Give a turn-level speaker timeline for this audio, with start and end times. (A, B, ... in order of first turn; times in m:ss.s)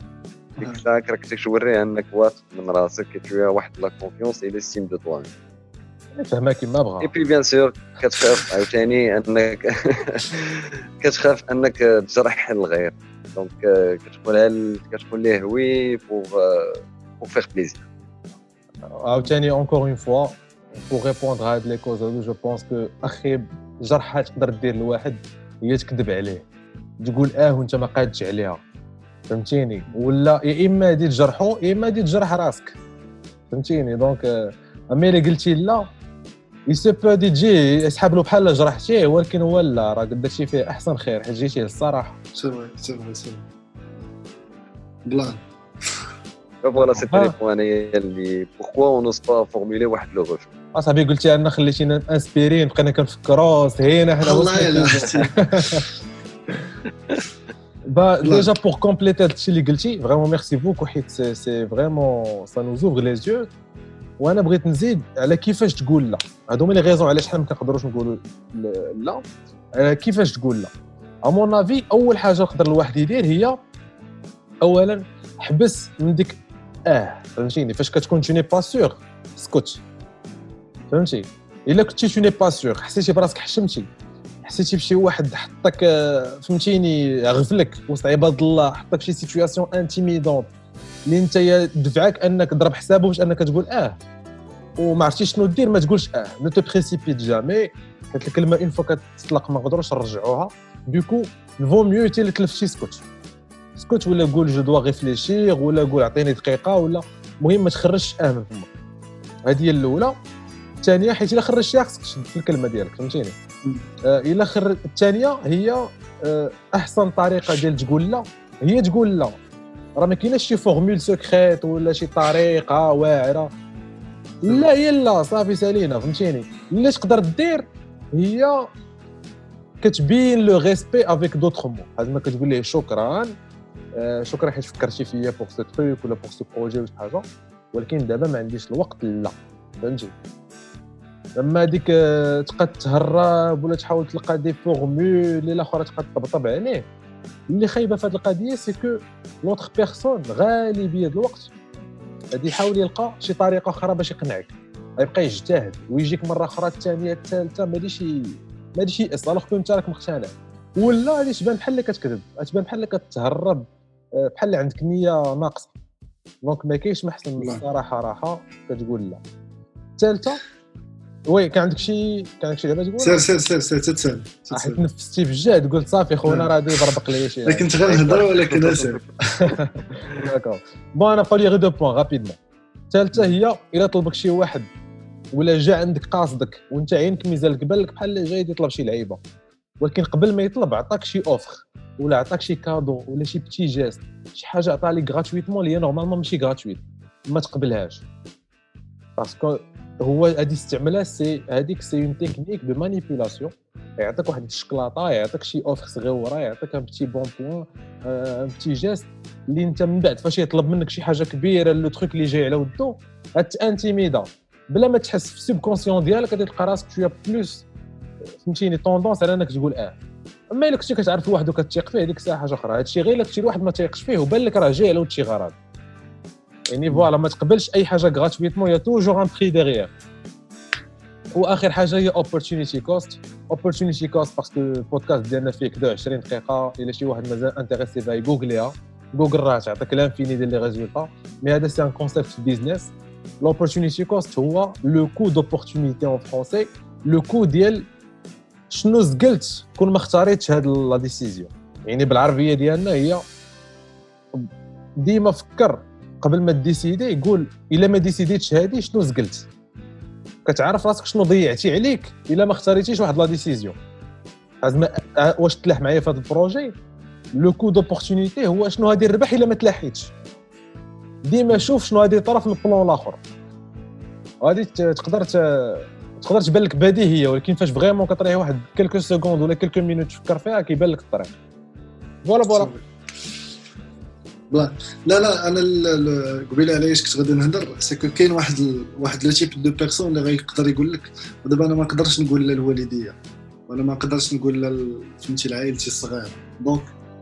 0:00.6-0:05.3 A
0:06.2-0:07.1 B
0:07.0-0:17.8 A
0:18.9-0:26.4 B
0:27.0-0:28.6 B
0:29.3-0:32.8 B
0:33.5-0:35.9 B
0:36.7-0:42.2 B
0:42.4-0:43.4 C
0:45.1-0:45.4 C
0:46.6-0:50.5 A
0:46.8-0:47.4 B
0:50.8-0:55.8 B
0:54.2-0:55.9 C
0:57.9-1:03.5 B
0:58.2-0:58.5 C
1:04.2-1:09.3 B
1:09.8-1:10.7 B
1:11.2-1:13.6 B
1:14.6-1:19.8 B
1:20.9-1:23.9 B
1:24.4-1:30.5 B
1:31.1-1:34.0 B
1:34.8-1:43.0 B
1:43.8-1:48.7 B
1:49.5-1:50.2 B
1:50.8-1:53.4 B
1:54.0-1:59.4 B
2:00.0-2:03.5 B
2:04.4-2:08.7 B
2:09.8-2:13.3 B
2:14.0-2:20.2 B
2:21.4-2:26.9 B
2:27.5-2:31.5 B
2:32.3-2:45.7 B
2:46.4-2:49.2 B
2:47.4-2:47.6 C
2:50.0-2:50.4 B
2:51.3-2:53.3 B
2:53.0-2:54.8 C
2:54.5-2:57.7 B
2:56.3-2:56.5 C
2:57.5-2:59.5 C
2:57.9-2:59.0 A
2:59.4-3:02.4 B
3:02.9-3:04.7 B
3:05.3-3:09.2 B
3:09.8-3:18.0 B
3:19.2-3:37.7 B
3:38.4-3:40.0 B
3:40.5-3:45.6 B
3:46.7-3:49.9 B
3:51.4-4:07.9 B
4:08.7-4:13.2 B
4:14.3-4:19.5 B
4:20.4-4:23.8 B
4:24.6-4:26.8 B
4:27.4-4:30.1 B
4:31.2-4:33.2 B
4:34.4-4:41.4 B
4:42.2-4:42.7 B
4:42.5-4:42.8 C
4:44.5-4:53.2 C
4:53.7-4:56.9 C